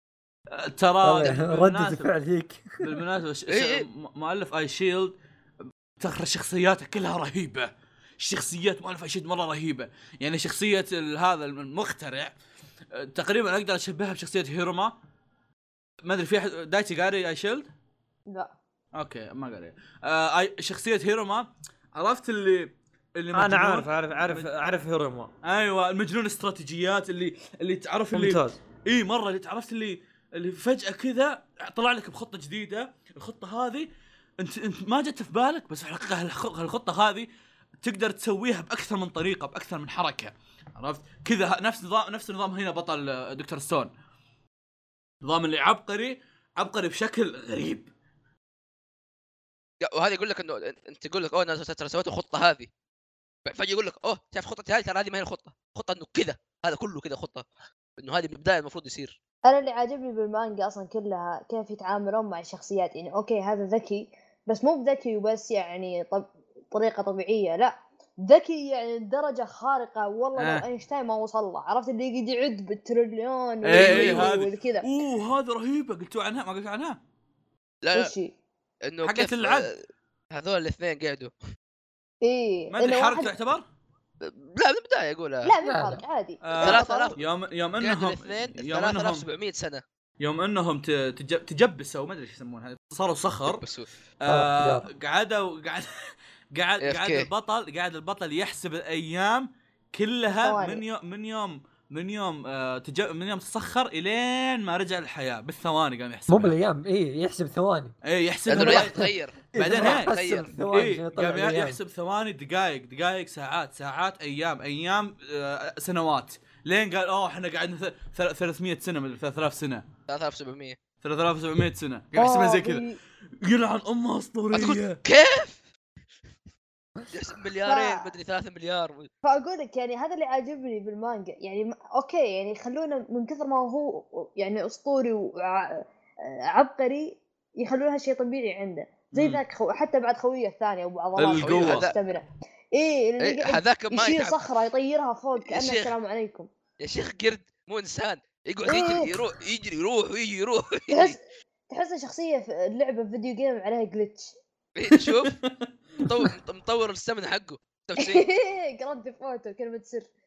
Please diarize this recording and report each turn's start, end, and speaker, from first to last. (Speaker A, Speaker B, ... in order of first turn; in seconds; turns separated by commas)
Speaker A: 0.5-2.1, Speaker B: 1.0-3.0, Speaker A: 2.8-5.2, Speaker C: 3.5-3.9, Speaker A: 6.0-12.3, Speaker A: 12.9-14.9, Speaker A: 16.0-17.7, Speaker A: 18.9-24.5, Speaker D: 23.3-25.3, Speaker A: 25.4-37.3, Speaker D: 28.1-28.6, Speaker A: 37.8-43.9, Speaker A: 45.2-47.9, Speaker C: 49.8-52.7, Speaker C: 53.5-57.4, Speaker C: 58.0-59.2, Speaker E: 59.5-74.9, Speaker A: 70.3-70.7, Speaker A: 73.6-77.0, Speaker C: 73.7-74.3, Speaker C: 77.8-78.1, Speaker E: 77.9-78.3, Speaker C: 78.8-79.7, Speaker A: 79.0-79.7, Speaker C: 80.3-81.3, Speaker E: 82.2-83.3, Speaker A: 82.7-83.6, Speaker C: 84.2-85.5, Speaker E: 85.4-87.1, Speaker B: 85.6-86.0, Speaker A: 86.4-89.2, Speaker C: 86.6-87.2, Speaker C: 87.8-89.8, Speaker A: 90.2-93.6, Speaker C: 93.5-93.9, Speaker A: 94.2-95.9, Speaker B: 94.3-94.9, Speaker A: 96.5-106.5, Speaker C: 96.8-97.3, Speaker E: 100.3-100.8, Speaker B: 106.3-107.9, Speaker A: 108.0-110.1, Speaker C: 108.5-110.5, Speaker B: 108.5-111.8, Speaker A: 110.7-119.9, Speaker C: 120.1-120.8, Speaker A: 121.0-122.8, Speaker E: 122.1-123.0, Speaker A: 123.4-125.0, Speaker C: 124.5-125.6, Speaker C: 127.1-129.1, Speaker E: 127.6-128.1, Speaker E: 129.2-135.8, Speaker E: 136.5-146.5, Speaker A: 139.1-139.4, Speaker A: 141.2-141.9, Speaker C: 141.4-141.9, Speaker C: 143.2-144.4, Speaker C: 145.4-145.9, Speaker C: 146.8-151.2, Speaker E: 148.7-149.1, Speaker E: 150.9-154.3, Speaker C: 154.8-155.3, Speaker A: 154.9-156.3, Speaker C: 156.0-158.2, Speaker E: 158.0-160.1